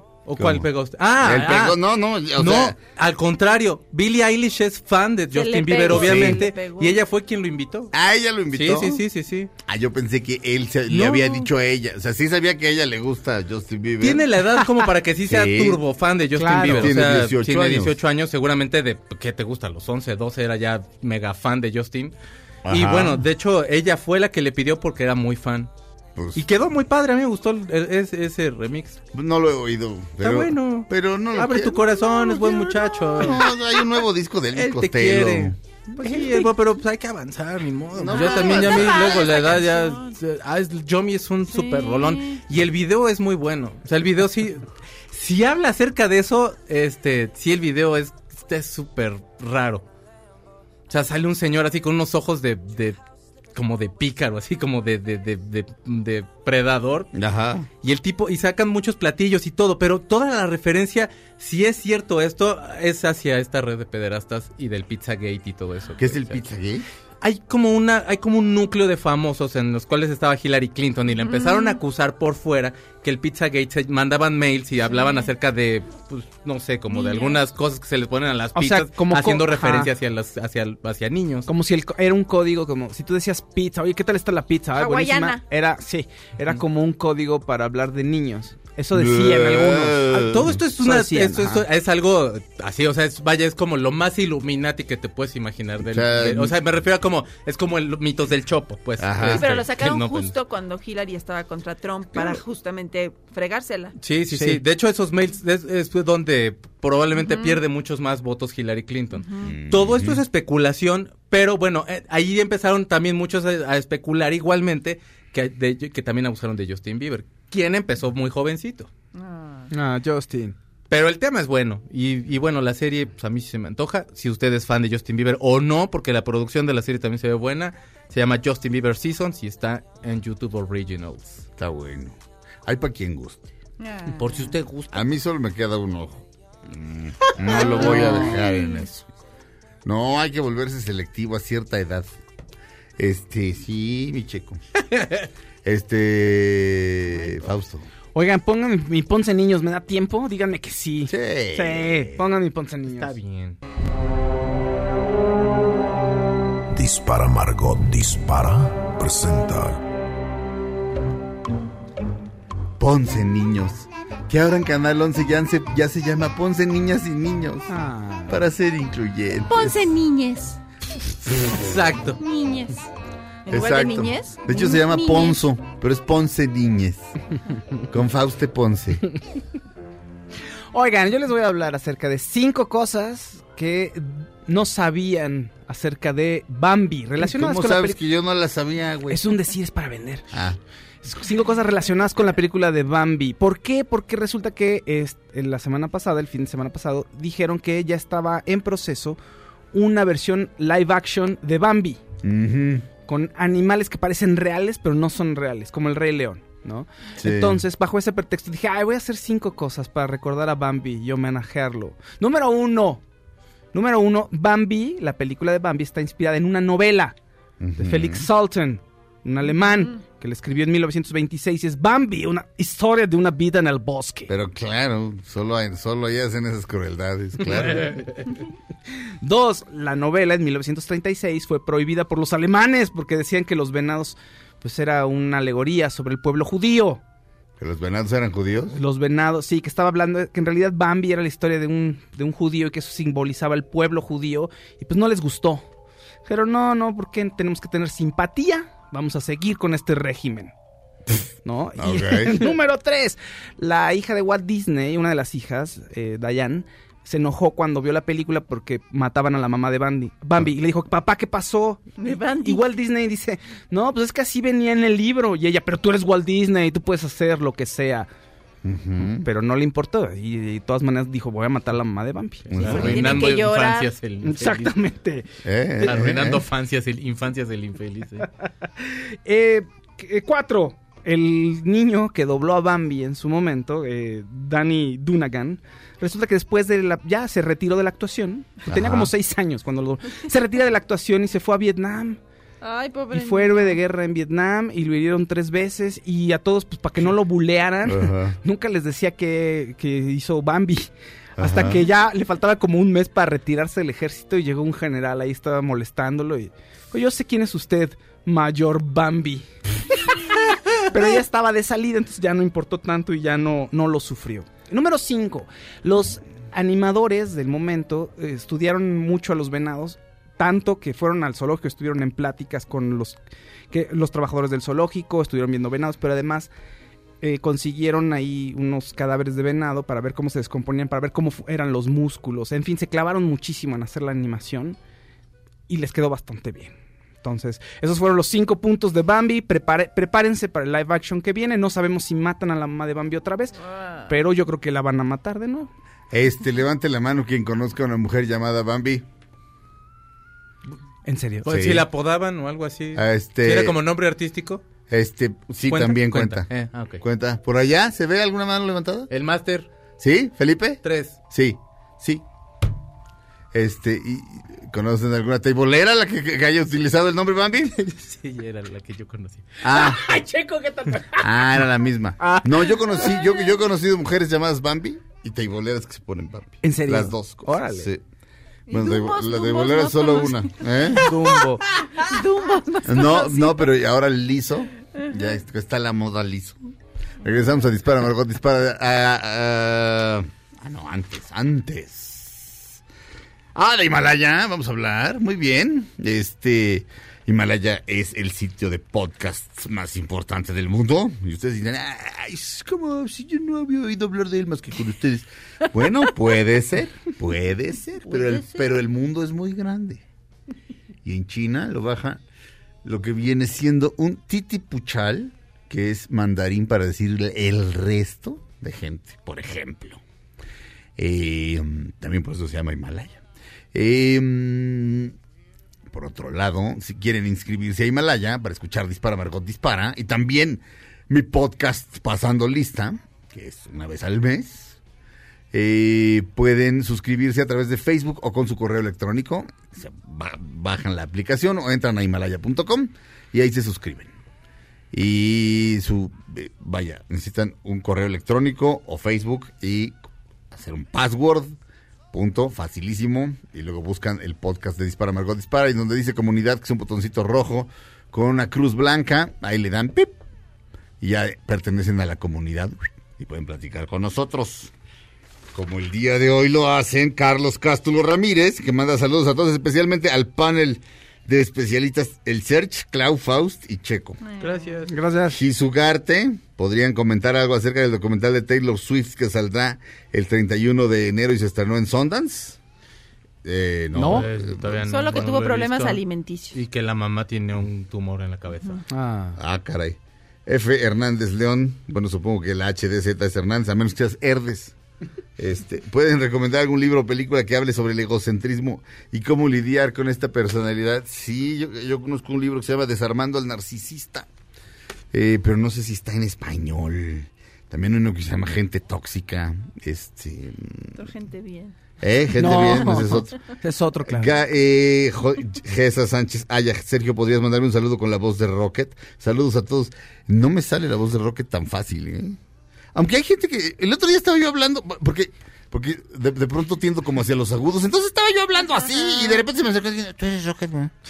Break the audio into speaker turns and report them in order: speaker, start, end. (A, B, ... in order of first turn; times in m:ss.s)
0:00.2-0:01.8 A
0:00.4-0:00.7 B
0:01.2-0:02.8 B
0:02.4-0:07.9 A
0:05.3-0:07.0 C
0:05.9-0:06.4 B
0:07.9-0:09.0 B
0:08.5-0:09.5 A
0:09.6-0:14.2 B
0:14.0-0:22.1 A
0:15.3-0:15.8 B
0:16.4-0:16.9 D
0:16.7-0:18.0 B
0:22.6-0:23.2 B
0:22.7-0:25.7 A
0:26.2-0:26.5 B
0:26.4-0:29.0 A
0:29.1-0:35.6 B
0:30.2-0:33.5 A
0:34.5-0:49.8 A
0:36.1-0:36.4 C
0:37.9-0:39.6 B
0:38.1-0:40.2 C
0:41.5-0:42.4 C
0:50.9-0:53.0 A
0:53.6-0:57.1 A
0:57.2-0:57.7 B
0:57.8-1:06.4 A
1:06.0-1:06.8 B
1:07.2-1:21.5 A
1:11.2-1:11.8 C
1:14.9-1:15.3 C
1:16.9-1:17.4 C
1:18.6-1:19.9 D
1:21.5-1:31.6 D
1:24.7-1:25.4 C
1:28.9-1:30.6 B
1:30.2-1:40.4 A
1:35.8-1:36.5 B
1:39.0-1:39.5 B
1:39.3-1:44.0 C
1:44.0-1:58.9 A
1:44.3-1:44.6 D
1:47.2-1:47.6 C
1:49.2-1:49.5 C
1:49.4-1:50.2 B
1:59.2-1:59.7 C
1:59.7-2:00.6 D
2:00.9-2:11.4 A
2:11.6-2:13.5 B
2:13.8-2:14.4 C
2:14.2-2:15.0 A
2:14.9-2:19.1 B
2:17.3-2:18.3 A
2:17.5-2:18.8 C
2:19.8-2:22.1 B
2:23.0-2:24.6 B
2:24.9-2:25.3 A
2:25.6-2:27.9 B
2:28.1-2:33.1 D
2:31.1-2:32.2 B
2:32.9-2:33.6 A
2:36.7-2:39.8 E
2:42.8-2:47.7 B
2:47.7-2:48.4 D
2:48.3-2:49.9 B
2:49.5-2:50.6 C
2:51.5-2:52.2 A
2:52.2-2:52.9 C
2:53.4-2:55.4 C
2:53.5-2:57.0 B
2:57.9-2:59.0 B
3:00.7-3:08.0 D
3:07.2-3:09.3 B
3:09.1-3:10.3 D
3:10.3-3:10.6 B
3:11.0-3:19.2 D
3:19.7-3:22.0 D
3:22.2-3:22.9 B
3:23.1-3:33.0 D
3:27.2-3:27.6 B
3:33.7-3:37.2 D
3:37.6-3:38.3 B
3:37.8-3:44.3 D
3:44.3-3:48.2 B
3:49.2-3:57.0 D
3:57.6-3:58.8 B
3:58.7-4:05.7 D
4:06.3-4:10.5 D
4:11.4-4:28.1 D
4:11.8-4:12.5 B
4:22.0-4:22.6 C
4:28.6-4:29.3 B
4:29.2-4:32.5 D
4:32.5-4:33.4 B
4:32.5-4:34.8 A
4:32.6-4:33.9 C
4:34.2-4:35.3 D
4:35.4-4:36.5 B
4:35.8-4:38.3 A
4:38.8-4:52.2 D
4:48.7-4:49.1 B
4:52.6-4:53.8 C
4:53.1-5:09.5 D
4:57.8-4:58.4 B
5:01.4-5:01.8 B
5:10.9-5:23.2 D
5:23.7-5:26.5 D
5:27.2-5:34.8 D
5:35.7-5:45.7 D
5:43.7-5:44.1 C
5:46.1-5:49.1 B
5:51.0-5:51.5 D
5:51.4-5:54.6 A
5:51.5-5:51.9 B
5:53.0-5:53.8 B
5:54.9-5:56.5 B
5:55.7-5:57.0 A
5:57.0-5:59.1 B
5:59.1-5:59.7 A
6:00.0-6:02.2 B
6:00.8-6:01.2 A
6:03.5-6:07.8 B
6:07.8-6:09.5 A
6:09.6-6:10.2 B
6:09.7-6:11.3 D
6:11.2-6:18.0 B
6:12.2-6:13.2 D
6:16.6-6:17.9 D
6:18.7-6:21.0 C
6:18.7-6:21.2 B
6:21.0-6:21.7 D
6:21.8-6:23.7 C
6:22.9-6:26.7 B
6:25.0-6:25.3 C
6:27.2-6:32.8 B
6:27.2-6:27.5 C
6:33.6-6:50.0 B
6:48.1-6:48.7 C
6:51.0-6:52.2 B
6:52.8-7:00.0 B
7:01.0-7:03.2 B
7:03.7-7:05.2 B
7:05.9-7:14.8 B
7:15.5-7:24.1 B
7:24.9-7:31.6 B
7:32.1-7:40.2 B
7:41.0-7:44.7 B
7:45.5-7:54.2 B
7:54.2-7:54.8 C
7:54.4-7:54.9 A
7:54.9-7:55.4 D
7:55.3-8:02.6 B
8:03.4-8:04.8 B
8:04.0-8:04.3 D
8:04.0-8:06.0 A
8:04.9-8:06.6 C
8:06.5-8:08.8 A
8:08.9-8:09.4 D
8:09.4-8:14.8 B
8:15.4-8:24.3 B
8:25.1-8:31.1 B
8:31.0-8:31.8 C
8:32.0-8:33.4 B
8:32.4-8:34.3 D
8:34.1-8:42.4 B
8:43.0-8:50.9 B
8:48.9-8:49.4 C